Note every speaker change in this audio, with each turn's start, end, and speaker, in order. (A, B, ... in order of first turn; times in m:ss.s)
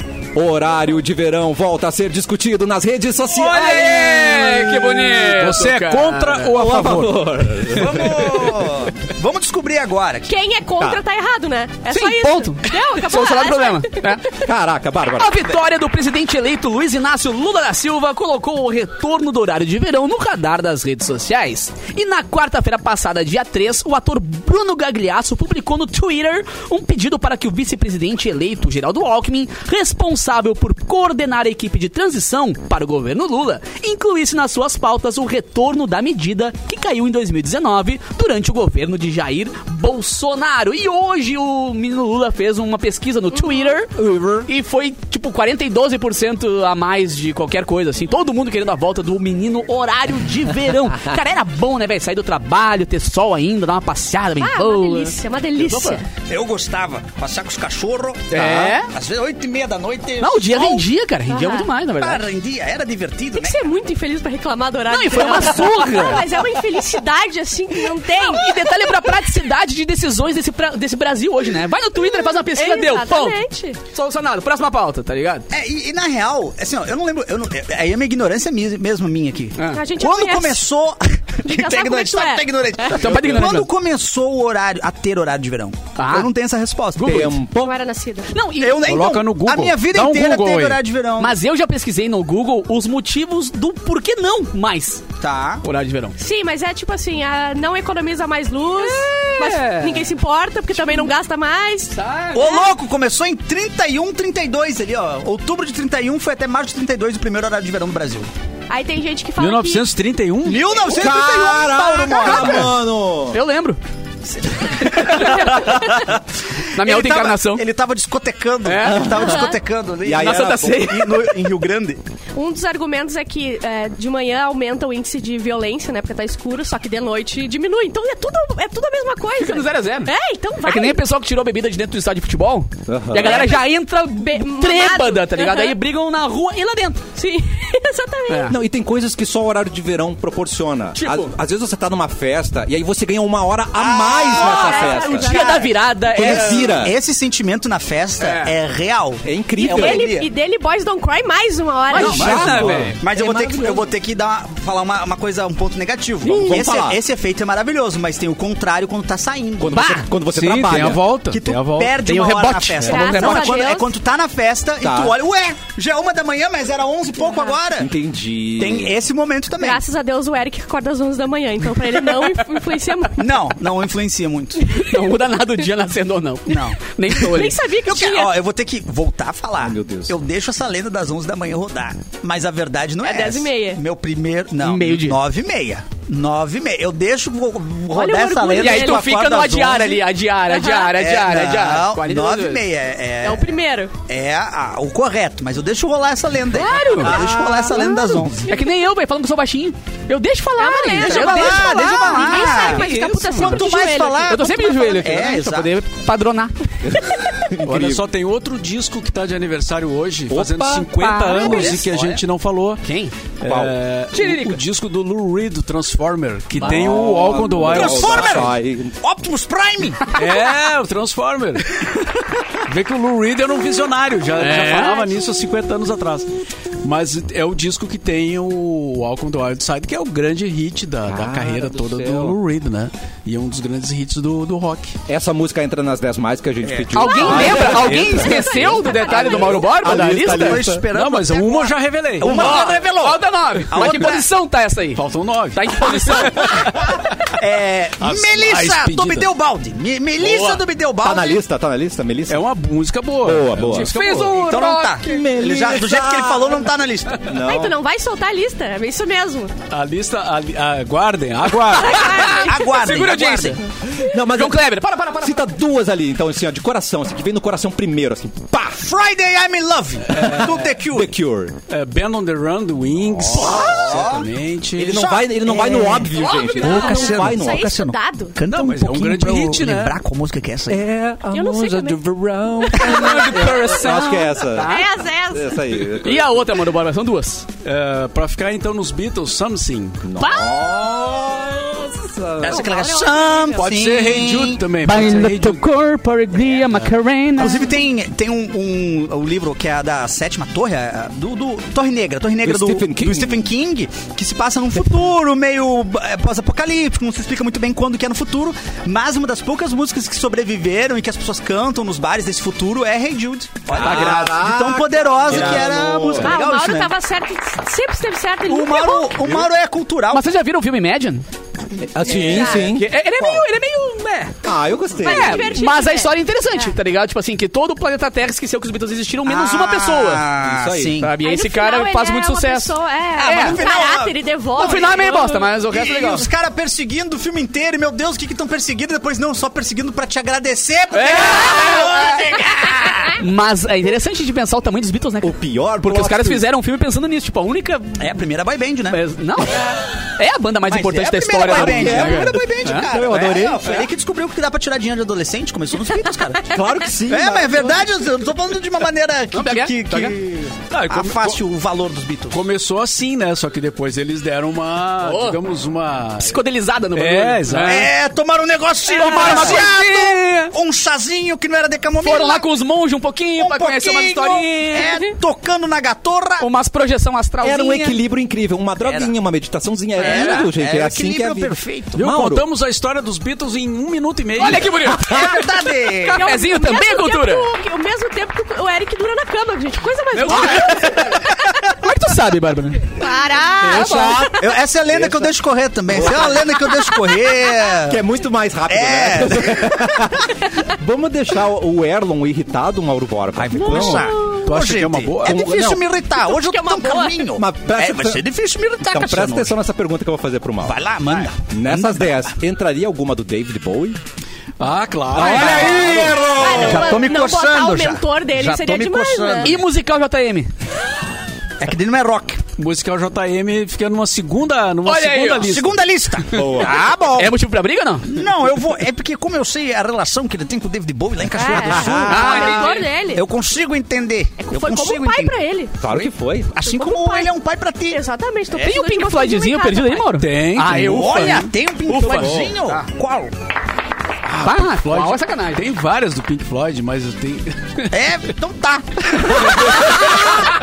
0:00.3-0:05.0 A
0:03.3-0:06.5 B
0:05.2-0:07.3 C
0:06.5-0:08.7 A
0:07.7-0:10.3 D
0:10.3-0:14.1 E
0:11.9-0:14.4 B
0:14.4-0:15.4 A
0:15.2-0:56.0 B
0:43.9-0:44.5 A
0:54.4-0:56.1 E
0:56.3-1:00.8 D
0:58.3-0:58.9 B
0:58.3-0:58.8 A
1:00.2-1:02.2 B
1:01.3-1:01.7 E
1:02.0-1:03.7 D
1:03.3-1:09.1 E
1:04.9-1:06.2 B
1:08.1-1:15.4 B
1:12.0-1:13.8 E
1:15.5-1:27.4 D
1:19.6-1:19.8 B
1:19.7-1:20.6 E
1:21.4-1:23.0 E
1:22.9-1:23.7 B
1:26.0-1:26.3 B
1:27.0-1:27.4 B
1:27.0-1:27.7 A
1:27.6-1:28.3 E
1:28.3-1:28.9 B
1:28.6-1:31.3 D
1:28.8-1:30.8 C
1:31.2-1:35.0 B
1:35.2-1:35.6 D
1:35.6-1:36.1 B
1:36.2-1:42.7 E
1:38.7-1:40.1 B
1:41.9-1:42.6 B
1:42.3-1:48.3 D
1:48.7-1:49.9 E
1:49.4-1:50.6 C
1:50.4-1:52.7 D
1:50.8-1:53.4 A
1:53.3-1:53.8 B
1:54.3-1:56.2 D
1:54.8-1:55.8 B
1:56.7-1:57.6 B
1:56.8-2:02.0 D
1:58.6-1:59.3 B
1:58.8-1:59.2 A
1:59.1-1:59.6 E
2:00.0-2:00.9 A
2:00.2-2:01.4 B
2:02.3-2:11.0 E
2:09.4-2:10.1 B
2:10.6-2:17.0 B
2:12.9-2:13.5 A
2:13.2-2:15.7 E
2:17.2-2:18.5 E
2:18.3-2:18.6 B
2:18.5-2:25.5 A
2:20.9-2:21.3 B
2:23.7-2:30.3 D
2:24.3-2:25.6 E
2:24.6-2:26.9 B
2:26.1-2:27.0 A
2:28.2-2:28.5 B
2:29.2-2:30.1 A
2:29.6-2:32.3 E
2:31.9-2:32.9 B
2:31.9-2:40.0 D
2:32.0-2:33.9 A
2:32.0-2:33.0 C
2:36.2-2:37.0 A
2:39.6-2:41.0 A
2:39.7-2:40.0 B
2:40.3-2:42.0 C
2:41.3-2:47.9 D
2:42.0-2:43.7 B
2:42.8-2:43.9 E
2:44.8-2:45.2 A
2:47.2-2:47.5 E
2:47.8-2:49.0 A
2:48.6-2:49.8 D
2:49.6-2:53.3 E
2:53.2-2:54.7 D
2:54.6-2:57.6 B
2:56.5-2:56.8 D
2:57.1-2:58.4 E
2:57.8-3:10.0 D
2:59.6-3:00.1 A
3:03.0-3:03.8 E
3:04.6-3:05.2 B
3:07.9-3:09.1 E
3:08.5-3:12.7 B
3:10.5-3:10.9 E
3:10.9-3:13.5 D
3:13.2-3:13.9 E
3:14.1-3:18.5 D
3:16.5-3:17.2 B
3:16.6-3:18.5 E
3:17.0-3:17.6 A
3:18.4-3:26.5 B
3:20.6-3:24.4 E
3:21.0-3:25.7 D
3:26.8-3:28.0 A
3:27.6-3:32.8 C
3:30.3-3:31.1 A
3:31.0-3:31.7 B
3:31.3-3:32.2 D
3:32.8-3:33.1 B
3:33.4-3:38.4 C
3:33.4-3:33.7 A
3:34.1-3:34.6 B
3:36.6-3:39.0 A
3:37.6-3:40.2 D
3:40.1-3:41.8 C
3:42.6-3:46.3 C
3:44.4-3:45.1 B
3:46.8-3:54.9 C
3:51.0-3:52.4 A
3:55.1-3:58.5 A
3:56.6-3:58.5 D
3:56.9-4:00.6 B
3:57.0-3:59.7 E
3:59.0-4:04.3 D
3:59.8-4:00.8 A
4:00.9-4:02.7 C
4:02.2-4:05.0 B
4:05.0-4:06.7 C
4:05.5-4:06.7 B
4:07.3-4:11.4 D
4:08.0-4:09.3 C
4:10.2-4:10.6 B
4:11.0-4:12.4 A
4:12.3-4:14.6 C
4:13.2-4:13.9 A
4:13.7-4:15.2 B
4:14.1-4:17.3 D
4:15.0-4:16.7 A
4:17.2-4:17.8 A
4:17.3-4:19.5 E
4:19.7-4:22.4 C
4:21.8-4:22.6 E
4:21.8-4:25.5 B
4:22.2-4:23.6 D
4:23.9-4:24.6 A
4:25.2-4:28.8 A
4:28.7-4:31.1 D
4:30.1-4:30.6 C
4:30.2-4:31.6 A
4:31.7-4:35.0 C
4:33.2-4:34.0 A
4:33.3-4:40.8 D
4:34.8-4:37.8 A
4:36.2-4:38.4 E
4:38.5-4:40.0 C
4:40.7-4:44.8 A
4:41.3-4:42.0 E
4:42.6-4:43.3 E
4:42.7-4:44.9 B
4:44.6-4:45.6 E
4:45.3-4:46.3 A
4:46.0-4:47.4 B
4:47.6-4:50.0 C
4:50.0-4:52.7 A
4:50.2-4:50.6 B
4:52.4-4:54.6 D
4:52.4-4:53.7 E
4:53.5-4:55.6 C
4:54.8-4:57.7 B
4:57.4-5:16.9 D
5:02.4-5:03.5 A
5:13.7-5:16.3 A
5:13.7-5:14.3 B
5:15.3-5:15.7 B
5:15.3-5:16.2 C
5:16.2-5:19.2 E
5:18.4-5:20.2 D
5:20.1-5:21.2 B
5:21.9-5:22.9 A
5:22.0-5:22.7 E
5:22.1-5:24.4 B
5:23.2-5:23.4 D
5:24.4-5:25.6 A
5:25.0-5:26.8 E
5:25.0-5:30.2 B
5:29.2-5:31.1 D
5:30.4-5:31.0 A
5:31.0-5:32.7 B
5:31.2-5:35.4 E
5:33.2-5:43.2 D
5:34.6-5:36.3 B
5:40.9-5:42.2 B
5:43.1-5:48.0 B
5:45.2-5:46.4 A
5:48.0-5:49.0 D
5:48.9-5:53.8 B
5:50.7-6:02.4 D
5:51.5-5:53.7 A
5:56.5-5:57.8 A
5:59.3-6:00.1 B
6:00.7-6:01.4 C
6:02.3-6:06.4 C
6:05.0-6:05.4 B
6:06.2-6:07.9 B
6:06.9-6:07.9 C
6:07.5-6:12.4 D
6:08.8-6:10.5 B
6:12.0-6:15.0 B
6:13.4-6:16.4 D
6:16.4-6:18.0 B
6:17.4-6:22.4 A
6:18.8-6:19.1 D
6:20.0-6:22.2 D
6:20.0-6:20.4 B
6:22.0-6:24.8 C
6:24.4-6:27.5 B
6:24.9-6:26.3 D
6:25.0-6:25.2 A
6:26.0-6:31.2 E
6:30.1-6:32.9 B
6:30.3-6:30.8 D
6:32.9-6:34.4 E
6:33.6-6:35.2 A
6:33.7-6:34.2 B
6:33.7-6:38.0 D
6:35.9-6:36.4 A
6:36.8-6:37.2 E
6:37.8-6:44.2 A
6:38.7-6:40.3 D
6:43.3-6:49.6 D
6:43.7-6:45.4 C
6:45.2-6:45.8 A
6:46.3-6:47.1 B
6:46.5-6:47.1 E
6:47.3-6:48.2 A
6:48.9-6:50.8 A
6:50.6-6:52.2 D
6:51.4-6:54.0 A
6:54.6-6:56.3 C
6:55.1-6:59.6 D
6:55.1-6:57.0 A
6:56.4-6:59.6 E
6:59.4-7:00.5 B
7:01.6-7:02.4 D
7:02.6-7:05.9 C
7:04.8-7:05.5 B
7:05.4-7:07.3 D
7:06.3-7:06.9 A
7:06.3-7:08.2 B
7:08.1-7:15.3 D
7:11.3-7:13.2 E
7:11.5-7:12.4 A
7:11.9-7:12.9 B
7:14.4-7:15.7 E
7:15.8-7:16.5 A
7:15.9-7:18.0 D
7:16.6-7:17.3 E
7:17.9-7:20.1 E
7:18.6-7:22.8 B
7:20.2-7:21.3 C
7:20.7-7:23.3 D
7:22.1-7:22.5 A
7:24.2-7:27.8 C
7:24.4-7:25.6 B
7:27.9-7:30.5 D